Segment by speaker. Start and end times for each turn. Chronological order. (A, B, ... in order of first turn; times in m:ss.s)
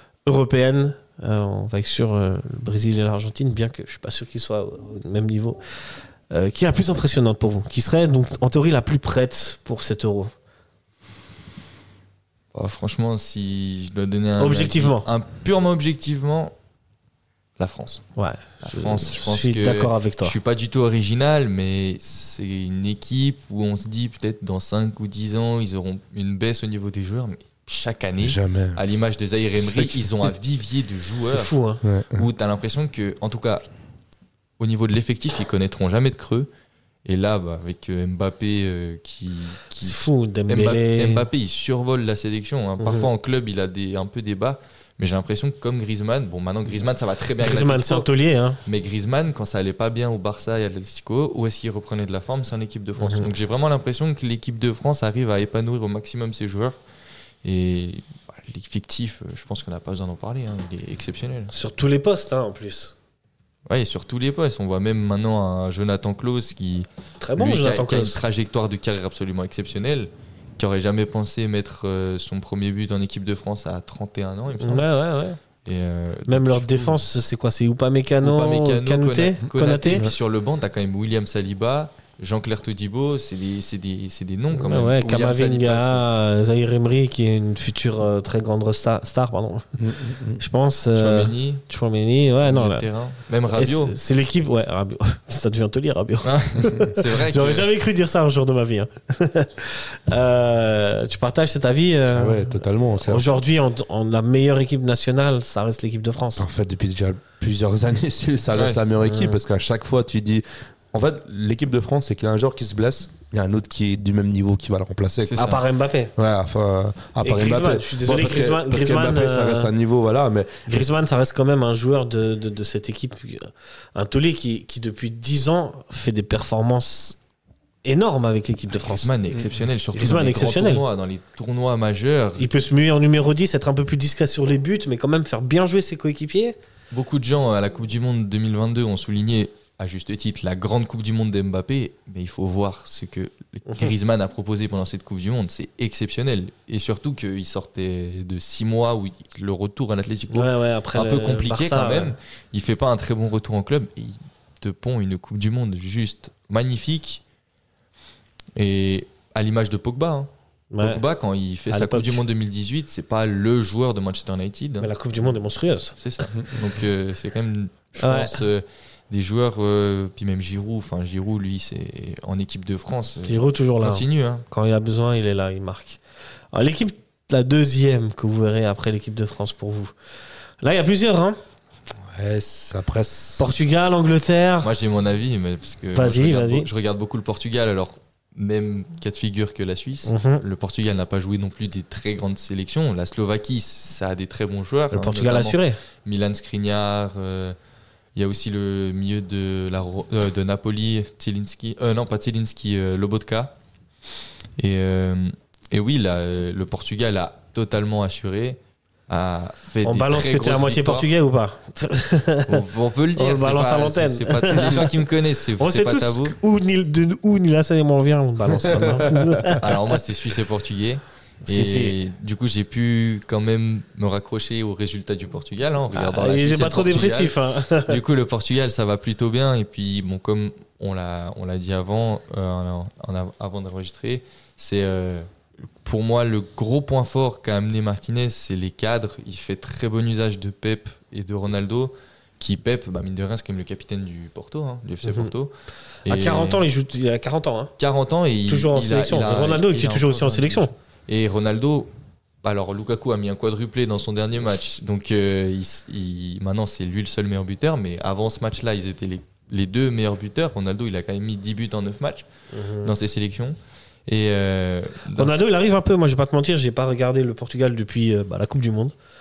0:00.2-0:05.6 A
0:06.3-0:10.3 A
0:12.5-0:16.5 B
0:14.4-0:15.1 A
0:17.6-0:18.0 B
0:18.2-0:20.4 A
0:18.6-0:31.5 B
0:28.2-0:28.8 C
0:29.6-0:30.3 C
0:31.2-0:31.8 A
0:31.8-0:32.3 C
0:32.1-0:33.6 B
0:34.6-0:36.5 B
0:37.0-0:48.1 B
0:39.8-0:41.2 A
0:42.8-0:43.1 A
0:47.4-0:48.6 A
0:48.6-0:56.8 B
0:53.0-0:53.3 A
0:57.4-1:01.5 B
1:01.5-1:02.9 A
1:03.7-1:14.9 B
1:07.2-1:08.2 A
1:14.6-1:15.4 A
1:15.6-1:17.0 B
1:16.3-1:20.0 A
1:18.2-1:26.0 B
1:24.5-1:29.6 A
1:29.8-1:30.4 C
1:30.4-1:32.8 A
1:30.9-1:31.6 B
1:32.4-1:34.0 B
1:33.5-1:46.5 A
1:36.2-1:37.7 B
1:42.1-1:43.4 C
1:46.4-1:55.5 C
1:48.5-1:48.8 B
1:49.0-1:49.4 A
1:55.2-1:55.6 B
1:55.4-1:56.1 A
1:56.2-2:00.8 C
1:57.2-1:59.7 A
2:00.7-2:07.2 A
2:07.8-2:09.1 A
2:08.7-2:12.5 B
2:09.9-2:10.8 A
2:12.4-2:16.6 A
2:16.9-2:37.2 B
2:23.6-2:23.9 A
2:30.3-2:32.1 A
2:38.6-2:45.3 B
2:40.7-2:41.0 A
2:41.7-2:42.2 A
2:44.8-2:46.0 A
2:46.0-2:54.4 B
2:48.0-2:48.4 A
2:53.3-2:56.0 A
2:56.5-2:59.9 A
3:00.6-3:01.4 A
3:02.1-3:03.5 C
3:03.4-3:04.7 A
3:04.6-3:17.6 B
3:05.9-3:06.7 A
3:10.0-3:10.4 A
3:14.9-3:15.8 A
3:18.2-3:23.5 B
3:24.6-3:31.1 B
3:29.8-3:32.6 A
3:32.4-3:36.3 B
3:33.2-3:34.9 A
3:35.6-3:39.8 A
3:38.7-3:39.4 C
3:39.6-3:55.2 B
3:41.4-3:42.0 A
3:45.9-3:48.0 A
3:55.8-4:05.5 B
4:05.0-4:05.3 A
4:06.0-4:06.6 B
4:06.1-4:07.7 A
4:07.8-4:11.9 B
4:08.5-4:10.7 A
4:12.4-4:22.2 B
4:22.5-4:22.9 A
4:22.8-4:23.6 B
4:24.1-4:25.4 B
4:25.1-4:28.9 A